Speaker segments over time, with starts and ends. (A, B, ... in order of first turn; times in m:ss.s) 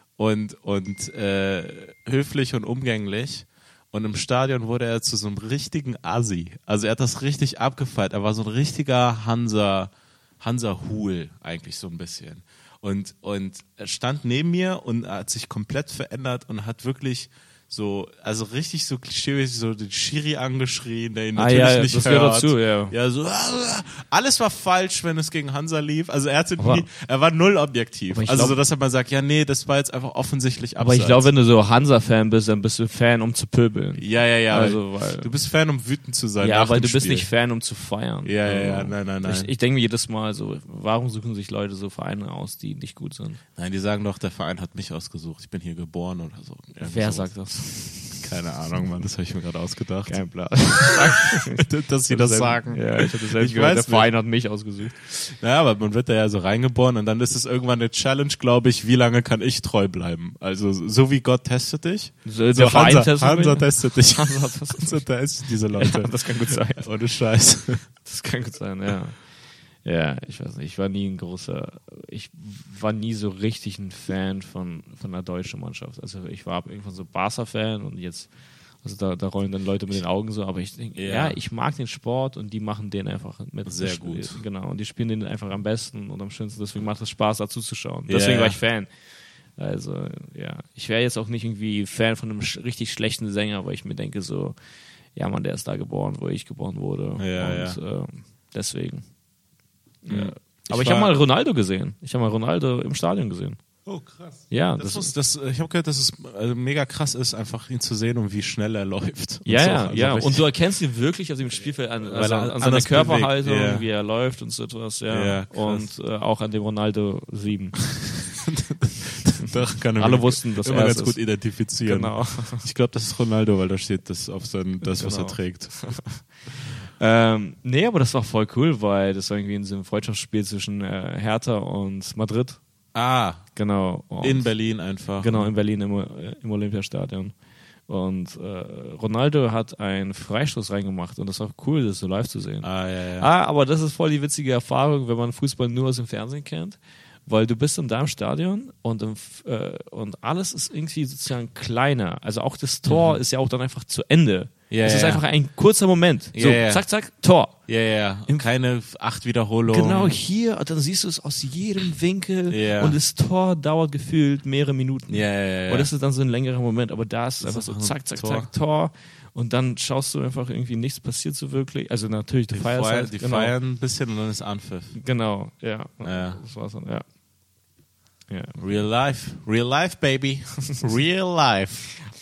0:00.2-0:31.3 A
0:21.4-0:22.9 B
0:26.6-0:26.8 B
0:28.1-0:28.6 B
0:30.8-0:35.3 B
0:34.0-0:37.3 A
0:36.4-0:43.4 B
0:38.2-0:39.5 A
0:43.6-0:50.2 A
0:46.8-0:48.1 B
0:50.1-0:55.0 B
0:50.8-0:54.1 A
0:55.0-1:07.8 A
1:02.2-1:05.1 B
1:05.7-1:06.9 B
1:08.0-1:09.2 B
1:09.8-1:18.3 B
1:18.8-1:28.9 B
1:21.0-1:21.4 A
1:23.6-1:24.4 A
1:28.1-1:28.6 A
1:29.6-1:34.6 B
1:35.2-1:39.0 B
1:37.2-1:37.8 A
1:40.0-1:43.6 B
1:40.1-1:41.1 A
1:43.8-1:50.5 A
1:44.5-1:45.1 B
1:49.4-1:57.9 B
1:52.1-1:53.9 A
1:55.1-1:55.9 A
1:58.0-2:06.0 A
2:00.0-2:01.2 B
2:01.8-2:02.7 B
2:04.9-2:06.3 B
2:07.0-2:12.6 B
2:12.9-2:13.5 A
2:13.6-2:14.6 B
2:14.2-2:15.5 A
2:15.2-2:17.4 B
2:17.9-2:22.7 B
2:22.6-2:23.3 A
2:23.2-2:37.6 B
2:32.9-2:33.2 A
2:34.7-2:35.2 A
2:36.3-2:36.8 A
2:37.7-2:40.2 A
2:39.7-2:53.5 B
2:42.5-2:43.0 A
2:45.1-2:45.9 A
2:47.4-2:48.5 A
2:52.5-2:55.0 A
2:55.0-2:57.0 B
2:56.0-2:56.4 A
2:58.3-2:58.6 B
2:58.6-3:01.9 A